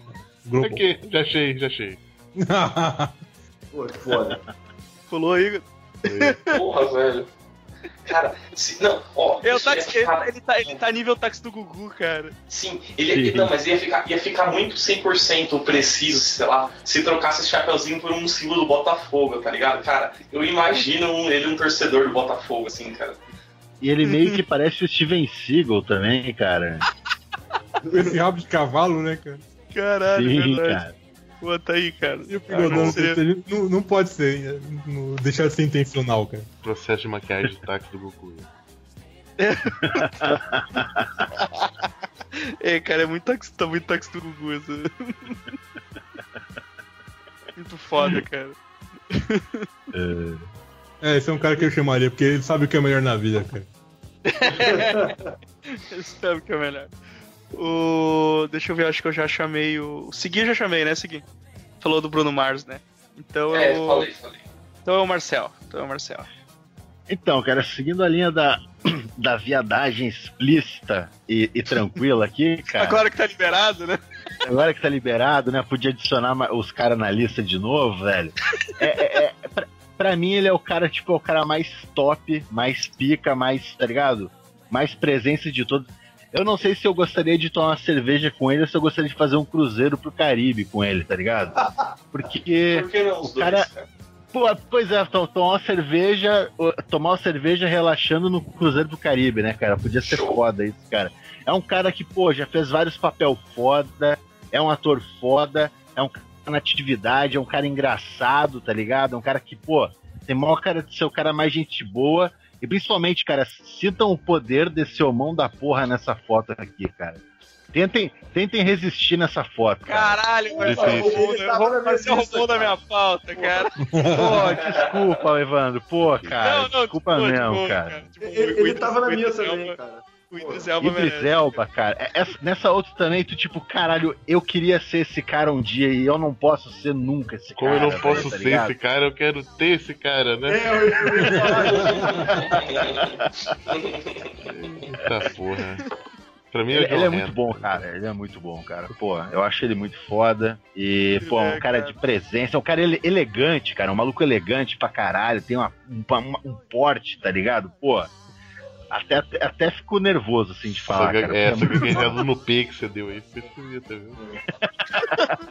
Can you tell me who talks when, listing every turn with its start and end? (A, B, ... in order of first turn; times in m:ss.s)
0:00.4-0:00.8 A
0:00.6-0:02.0 B
0:02.4-0:03.2 A
0:03.7-0:04.4 C
0:04.1-0:04.4 D
0:05.1-0:06.6 E
0:06.0-0:06.4 B
0:06.5-0:07.3 F
0:08.0-0:10.2 F
0:09.4-0:12.3 E
0:12.5-0:23.2 F
0:13.1-0:13.5 D
0:23.8-0:26.8 D
0:24.0-0:24.4 E
0:27.9-0:29.4 A
0:29.7-0:30.8 E
0:30.1-0:30.9 D
0:31.4-0:33.2 E
0:32.3-0:36.5 A
0:32.5-0:33.1 B
0:36.6-0:38.5 B
0:39.4-0:40.4 E
0:40.2-0:41.1 D
0:42.6-0:45.4 E
0:47.6-0:48.6 E
0:49.1-0:49.7 E
0:49.9-0:50.4 D
0:51.0-0:53.7 A
0:54.3-0:55.1 E
0:54.5-0:55.3 C
0:55.7-0:56.9 E
0:57.5-1:01.2 E
1:01.8-1:04.1 E
1:03.5-1:04.4 F
1:04.8-1:06.3 E
1:07.1-1:13.0 D
1:12.8-1:14.0 E
1:14.4-1:33.7 D
1:32.7-1:33.9 F
1:34.3-1:57.2 D
1:40.1-1:40.4 F
1:57.7-2:00.2 D
1:59.8-2:03.8 E
2:00.5-2:02.8 C
2:00.6-2:01.2 B
2:03.3-2:03.7 C
2:03.9-2:04.4 A
2:04.0-2:08.1 D
2:04.5-2:05.1 F
2:06.0-2:06.4 B
2:06.4-2:09.8 E
2:08.2-2:10.7 C
2:10.3-2:11.6 E
2:10.8-2:18.7 D
2:17.6-2:21.4 B
2:20.5-2:22.5 C
2:21.2-2:22.3 A
2:21.5-2:24.3 F
2:22.5-2:23.0 D
2:24.4-2:25.9 B
2:26.5-2:27.8 B
2:26.7-2:38.1 D
2:31.2-2:32.0 E
2:38.9-2:42.2 D
2:40.7-2:44.2 B
2:44.5-2:45.4 D